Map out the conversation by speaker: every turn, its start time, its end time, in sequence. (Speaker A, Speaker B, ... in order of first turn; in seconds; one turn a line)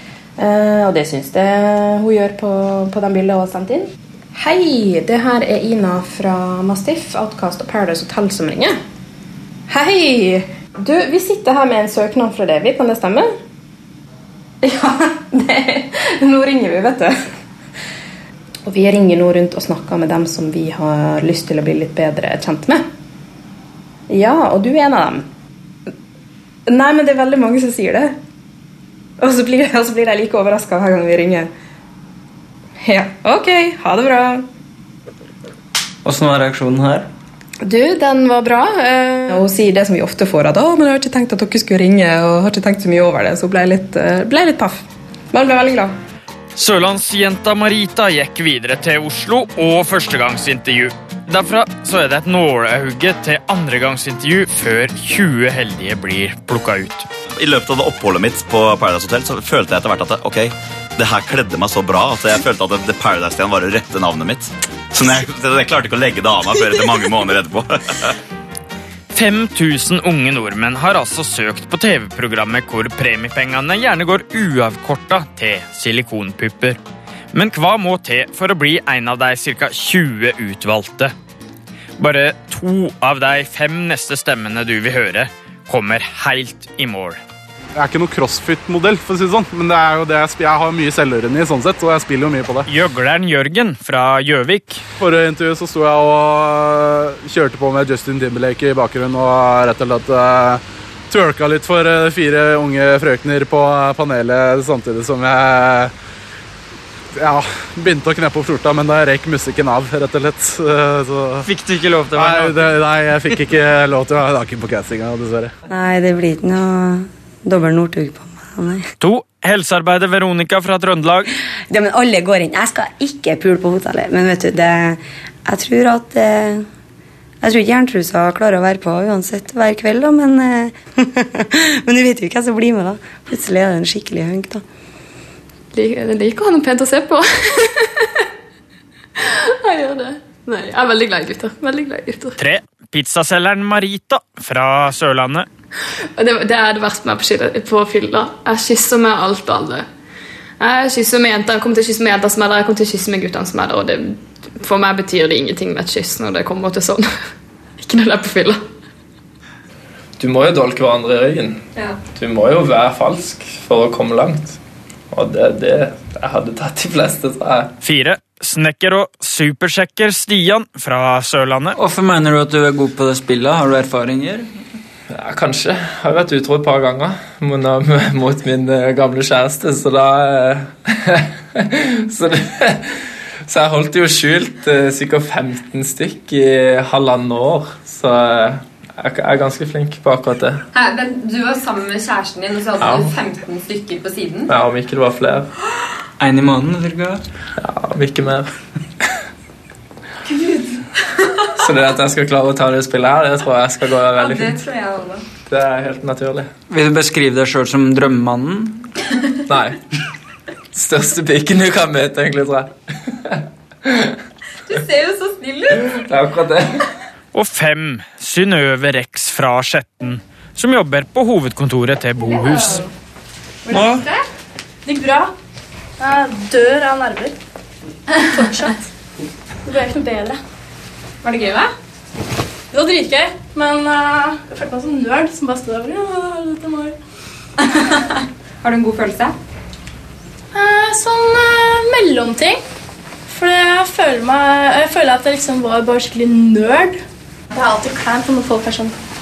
Speaker A: 0.4-8.8
Speaker A: 9.7-13.3
Speaker A: 14.6-17.1
Speaker A: 18.6-22.8
Speaker A: 24.1-25.3
Speaker A: 26.7-28.1
Speaker A: 29.2-31.5
Speaker A: 32.8-34.4
Speaker B: 36.0-37.1
Speaker A: 37.6-44.8
Speaker A: 45.3-45.9
Speaker C: 46.5-57.1
Speaker D: 57.4-68.1
Speaker C: 69.1-76.8
Speaker C: 77.3-81.1
Speaker C: 82.0-87.2
Speaker E: 87.8-92.7
Speaker C: 92.7-94.8
Speaker E: 95.0-105.9
Speaker E: 107.1-111.5
Speaker B: 111.5-112.6
Speaker E: 112.1-115.5
Speaker F: 115.7-118.8
Speaker C: 119.0-121.3
Speaker F: 121.7-126.6
Speaker F: 127.4-134.6
Speaker G: 135.7-138.2
Speaker G: 139.2-142.4
Speaker C: 142.4-145.5
Speaker G: 146.2-149.9
Speaker G: 150.6-158.6
Speaker H: 160.2-161.6
Speaker H: 162.1-164.6
Speaker H: 165.1-167.7
Speaker C: 167.8-171.8
Speaker B: 171.8-174.5
Speaker H: 175.1-190.6
Speaker I: 190.7-194.5
Speaker H: 192.8-193.1
Speaker H: 194.5-195.5
Speaker B: 196.2-197.2
Speaker H: 197.6-198.5
Speaker I: 200.2-200.8
Speaker H: 201.6-204.6
Speaker I: 204.1-205.2
Speaker H: 205.4-206.5
Speaker B: 206.7-208.9
Speaker H: 209.5-209.8
Speaker H: 210.7-212.7
Speaker H: 213.2-214.1
Speaker I: 214.7-216.0
Speaker H: 215.9-216.8
Speaker C: 217.3-222.8
Speaker I: 222.2-222.8
Speaker I: 223.7-224.2
Speaker B: 223.7-224.1
Speaker J: 224.9-225.3
Speaker J: 226.0-227.3
Speaker J: 228.3-228.9
Speaker J: 229.7-230.4
Speaker I: 231.2-231.7
Speaker J: 232.7-236.9
Speaker I: 237.6-239.4
Speaker J: 240.5-242.6
Speaker J: 243.3-247.0
Speaker J: 247.5-248.9